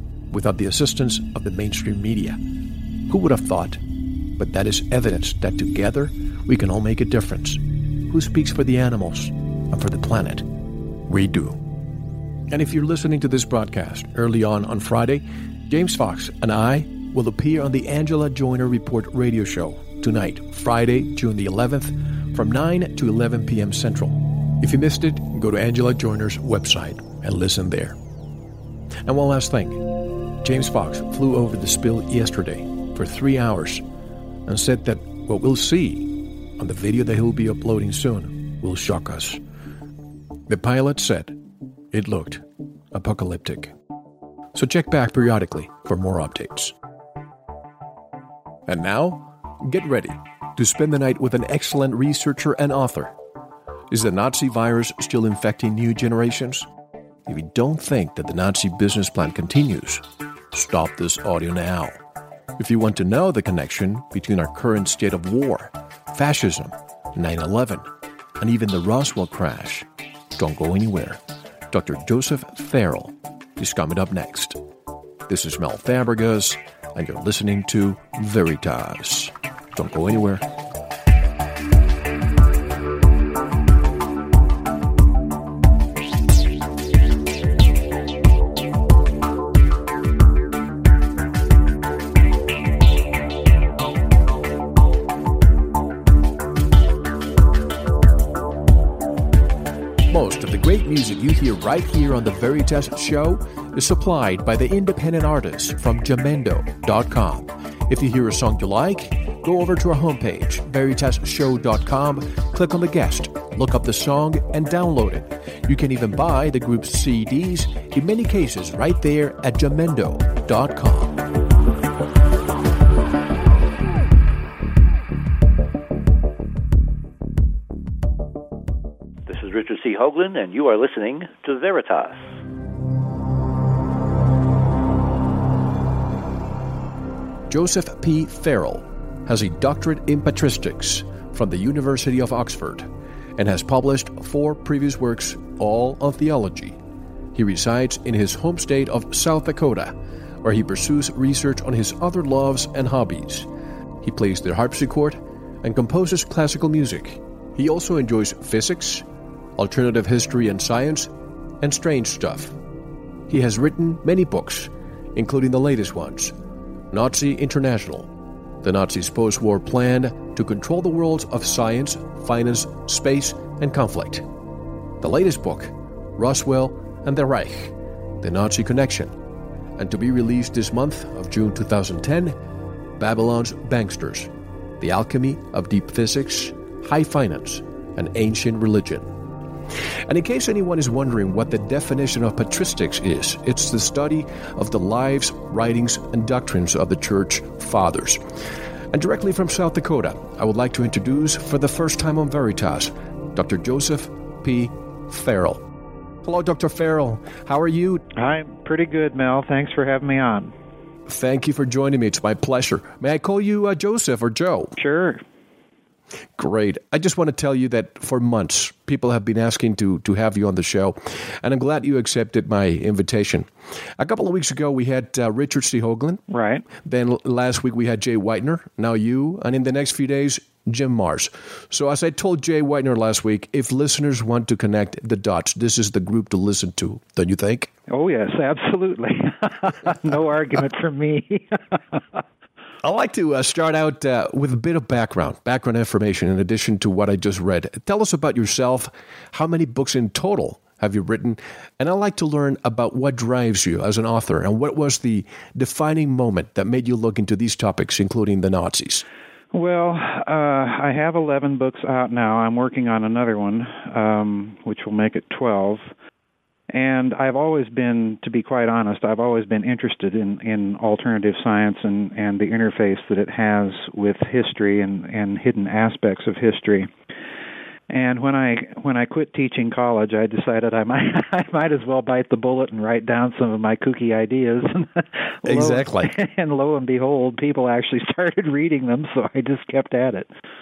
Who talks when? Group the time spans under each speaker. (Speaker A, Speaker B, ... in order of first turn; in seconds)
Speaker A: 0.3-2.4, 3.1-3.8, 4.4-10.5, 11.1-11.6, 12.5-27.9, 29.1-29.8, 30.4-33.8, 34.5-39.4, 40.5-41.4, 41.9-43.7, 44.5-46.7, 48.7-53.1, 53.9-56.7, 57.2-62.0, 62.6-67.9, 68.4-74.6, 75.3-80.4, 100.1-121.2, 137.5-146.8, 147.3-153.5, 154.0-159.1, 159.6-162.6, 163.3-166.3, 166.9-168.1, 168.6-174.2, 175.0-179.1, 179.8-182.3, 183.0-189.1, 190.1-198.2, 198.9-205.6, 206.2-208.0, 211.1-214.8, 216.4-226.2, 226.8-237.7, 242.8-259.0, 285.4-286.1
Speaker B: 129.3-132.2
Speaker C: 208.2-210.5, 214.8-215.2, 226.3-226.7, 237.9-242.2, 259.5-265.9, 266.7-276.9, 277.9-290.3